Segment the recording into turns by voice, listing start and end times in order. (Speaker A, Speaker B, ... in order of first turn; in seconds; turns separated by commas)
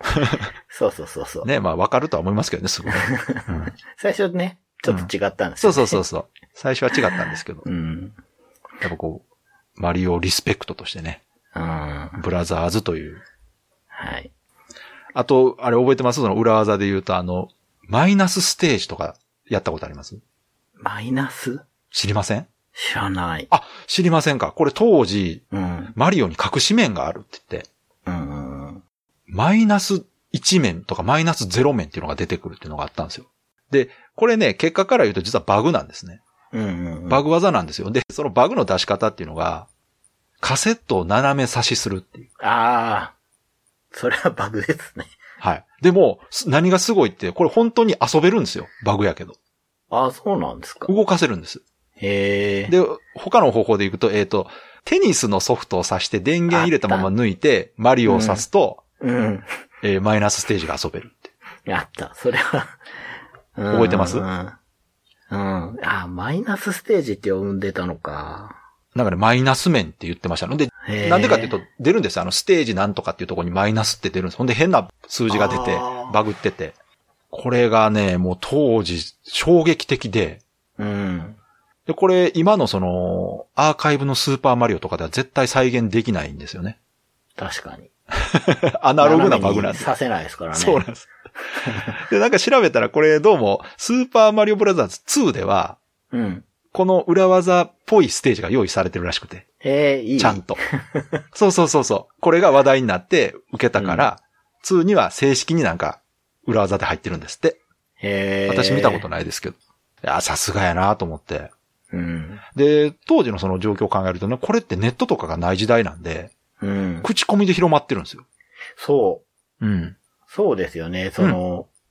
Speaker A: 0.1-0.4, Speaker B: 0.7-1.5, Speaker A: 1.4-3.7, Speaker B: 2.9-6.0, Speaker A: 4.9-7.7, Speaker B: 7.6-8.2, Speaker A: 8.8-9.2, Speaker A: 9.8-11.2, Speaker B: 11.5-12.2, Speaker A: 12.2-13.2, Speaker B: 13.9-14.3, Speaker A: 15.2-20.2, Speaker B: 20.8-21.6, Speaker A: 21.9-22.5, Speaker B: 22.8-23.5, Speaker A: 23.5-27.7, Speaker B: 25.5-25.9, Speaker B: 28.1-28.8, Speaker A: 29.3-36.2, Speaker B: 36.5-37.2, Speaker A: 37.1-39.7, Speaker A: 40.4-42.3, Speaker B: 42.4-43.1, Speaker B: 43.9-45.1, Speaker A: 45.4-49.4, Speaker B: 49.9-50.9, Speaker A: 50.9-51.6, Speaker B: 52.0-52.8, Speaker A: 52.7-58.8, Speaker B: 56.5-57.1, Speaker B: 58.1-58.5, Speaker B: 59.0-59.5, Speaker A: 59.8-61.3, Speaker B: 61.7-62.8, Speaker B: 63.5-64.6, Speaker A: 63.7-64.2, Speaker B: 65.3-68.6, Speaker A: 69.0-76.8, Speaker B: 70.8-71.6, Speaker B: 75.3-76.2, Speaker A: 77.3-80.4, Speaker B: 80.8-81.4, Speaker A: 81.9-86.8, Speaker B: 87.4-87.9, Speaker A: 88.3-89.9, Speaker B: 89.0-90.8, Speaker A: 90.5-91.1, Speaker B: 91.6-91.9, Speaker A: 91.9-95.8, Speaker B: 96.1-96.5, Speaker A: 96.7-99.5, Speaker B: 99.6-101.2, Speaker A: 100.2-100.6, Speaker A: 101.3-107.6, Speaker B: 103.8-104.1, Speaker B: 108.0-109.0, Speaker A: 108.5-111.5, Speaker B: 111.9-112.4, Speaker A: 112.5-116.3, Speaker B: 116.6-117.1, Speaker A: 117.0-118.2, Speaker B: 118.8-119.2, Speaker A: 119.6-120.0, Speaker B: 120.3-121.7